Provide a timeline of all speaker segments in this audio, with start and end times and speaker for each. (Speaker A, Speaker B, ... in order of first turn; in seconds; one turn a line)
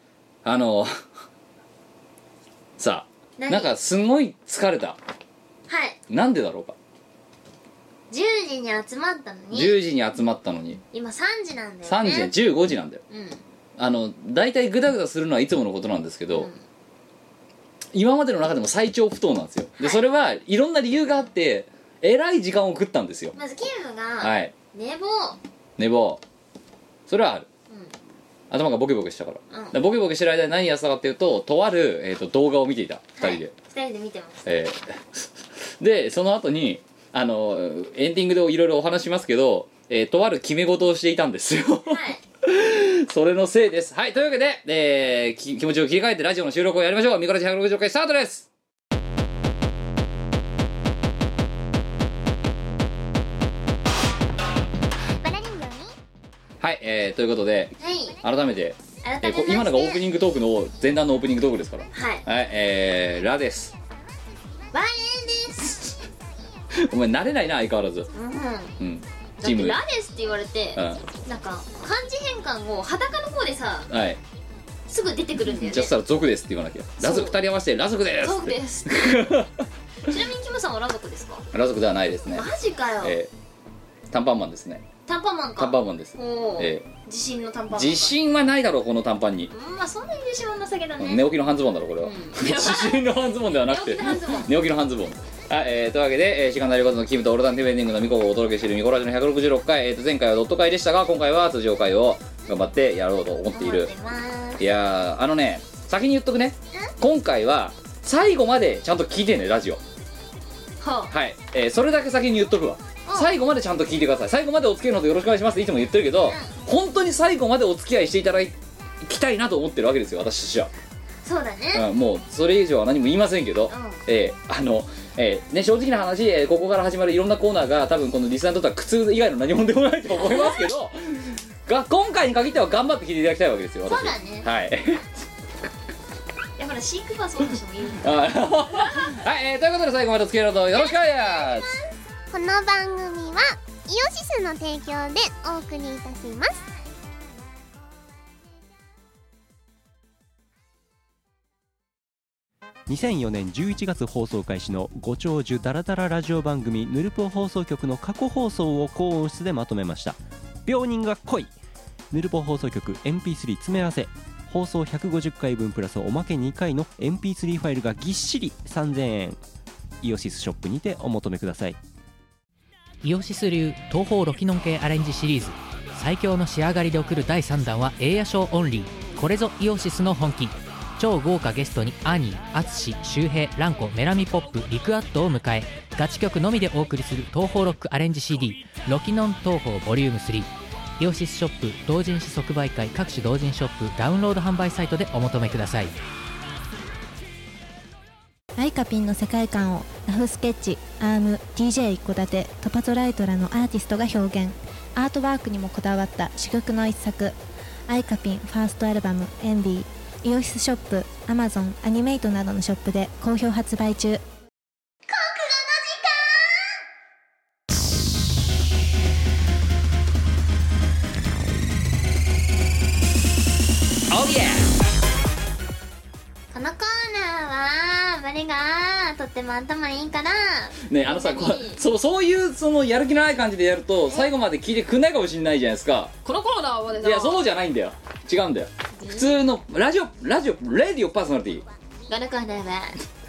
Speaker A: 0.4-1.0
Speaker A: 2.8-5.0
Speaker B: 3.4-3.7
Speaker B: 5.7-6.0
Speaker A: 6.1-6.8
Speaker B: 8.1-9.8
Speaker A: 9.5-10.8
Speaker B: 10.9-12.3
Speaker A: 11.8-13.0
Speaker B: 13.1-13.4
Speaker A: 13.8-16.5
Speaker B: 16.3-16.6
Speaker A: 17.9-23.3
Speaker B: 23.3-25.4
Speaker A: 24.2-24.5
Speaker A: 25.8-26.2
Speaker A: 27.1-27.5
Speaker A: 28.5-33.5
Speaker B: 33.2-34.4
Speaker A: 34.5-48.5
Speaker B: 41.9-42.2
Speaker C: 55.2-55.9
Speaker A: 56.6-63.7
Speaker B: 57.8-58.2
Speaker B: 59.0-60.0
Speaker B: 61.9-62.2
Speaker B: 64.7-65.9
Speaker A: 66.8-68.1
Speaker B: 68.1-68.8
Speaker A: 68.8-69.8
Speaker B: 69.4-73.9
Speaker A: 70.8-71.0
Speaker A: 73.9-74.2
Speaker B: 74.9-75.9
Speaker A: 75.4-79.6
Speaker B: 77.0-77.4
Speaker B: 78.2-79.0
Speaker B: 80.1-81.5
Speaker A: 81.5-82.5
Speaker B: 82.3-83.2
Speaker A: 83.0-83.3
Speaker A: 84.1-84.8
Speaker B: 85.1-88.1
Speaker A: 85.6-86.8
Speaker A: 87.7-89.5
Speaker B: 89.5-91.3
Speaker A: 91.0-103.9
Speaker B: 92.0-94.5
Speaker B: 103.5-104.6
Speaker A: 104.6-109.8
Speaker B: 110.8-111.1
Speaker A: 111.1-120.7
Speaker B: 121.2-121.8
Speaker A: 121.7-135.2
Speaker B: 123.7-124.0
Speaker B: 130.1-130.7
Speaker B: 133.9-134.5
Speaker B: 136.6-138.2
Speaker A: 138.0-141.7
Speaker B: 140.7-141.8
Speaker C: 142.3-146.7
Speaker D: 152.9-161.5
Speaker D: 162.1-169.4
Speaker D: 170.0-171.8
Speaker E: 173.0-195.9
Speaker F: 198.6-207.3
Speaker F: 207.9-214.2
Speaker C: 215.1-216.7
Speaker A: 224.1-224.7
Speaker B: 226.5-231.8
Speaker C: 229.3-230.2
Speaker A: 230.8-236.1
Speaker B: 236.2-237.5
Speaker A: 237.0-241.6
Speaker B: 239.0-239.3
Speaker B: 242.1-242.9